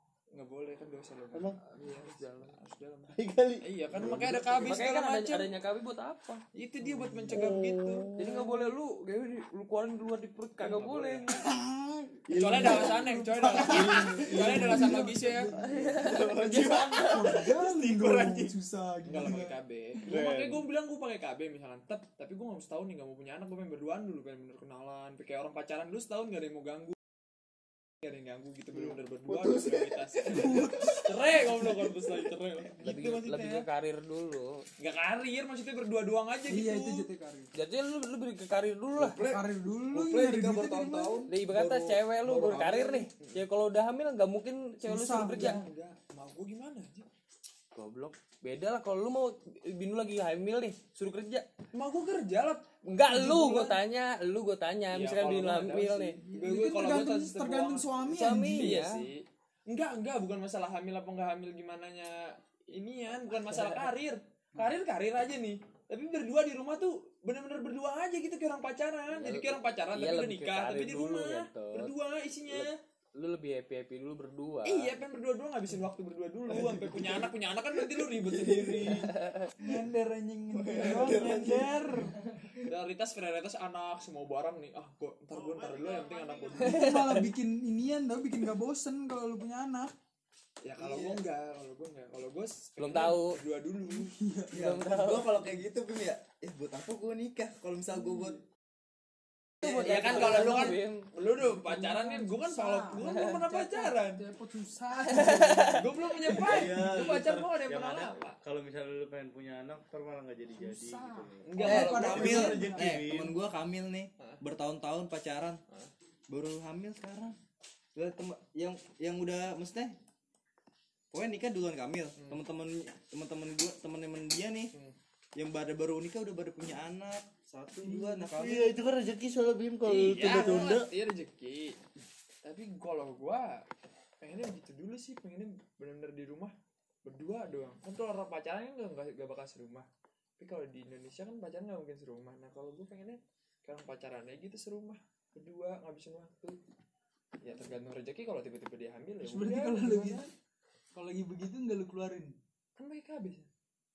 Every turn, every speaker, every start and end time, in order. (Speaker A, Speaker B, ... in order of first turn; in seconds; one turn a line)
Speaker A: 0.3-5.5
Speaker B: 1.6-2.6
Speaker C: 3.1-4.6
Speaker B: 4.6-6.4
Speaker A: 6.5-8.1
Speaker C: 7.3-8.5
Speaker B: 8.2-11.4
Speaker A: 10.6-11.4
Speaker D: 11.3-19.6
Speaker E: 12.3-12.9
Speaker A: 12.3-15.5
Speaker C: 13.6-15.1
Speaker B: 15.5-17.2
Speaker E: 15.9-16.7
Speaker A: 16.4-18.4
Speaker A: 19.0-26.9
Speaker C: 20.1-20.6
Speaker A: 28.0-33.7
Speaker D: 30.1-32.2
Speaker B: 32.8-34.6
Speaker A: 34.8-37.1
Speaker D: 36.5-37.5
Speaker B: 37.5-39.2
Speaker E: 38.9-43.1
Speaker D: 39.2-41.5
Speaker B: 41.3-45.6
Speaker D: 44.8-45.6
Speaker A: 45.2-47.1
Speaker B: 47.7-51.5
Speaker A: 51.7-53.8
Speaker B: 52.8-56.2
Speaker A: 54.9-58.0
Speaker D: 56.2-58.7
Speaker B: 58.0-59.1
Speaker A: 58.5-72.7
Speaker B: 63.2-63.9
Speaker B: 69.1-75.0
Speaker A: 74.6-79.1
Speaker E: 76.7-77.2
Speaker E: 78.0-79.1
Speaker B: 78.8-79.5
Speaker D: 79.6-82.2
Speaker E: 80.5-82.6
Speaker A: 80.7-81.7
Speaker A: 82.6-87.2
Speaker C: 85.3-86.8
Speaker B: 86.6-87.3
Speaker D: 86.7-89.9
Speaker A: 90.6-94.1
Speaker E: 90.8-91.2
Speaker B: 92.8-93.4
Speaker D: 93.8-94.8
Speaker E: 94.5-98.4
Speaker B: 94.5-95.5
Speaker B: 99.6-101.1
Speaker A: 99.6-104.2
Speaker E: 99.8-100.4
Speaker D: 101.4-106.5
Speaker B: 103.0-103.3
Speaker B: 105.1-105.9
Speaker A: 105.7-108.4
Speaker C: 106.3-113.3
Speaker D: 110.5-113.1
Speaker A: 111.5-112.5
Speaker E: 111.6-115.6
Speaker E: 116.3-117.3
Speaker E: 117.9-119.9
Speaker E: 121.1-124.7
Speaker E: 125.3-128.8
Speaker C: 128.1-130.9
Speaker A: 129.8-131.8
Speaker A: 132.4-133.7
Speaker A: 134.2-136.5
Speaker A: 137.0-146.6
Speaker A: 147.4-150.3
Speaker D: 149.2-150.3
Speaker D: 150.9-152.4
Speaker A: 152.8-153.5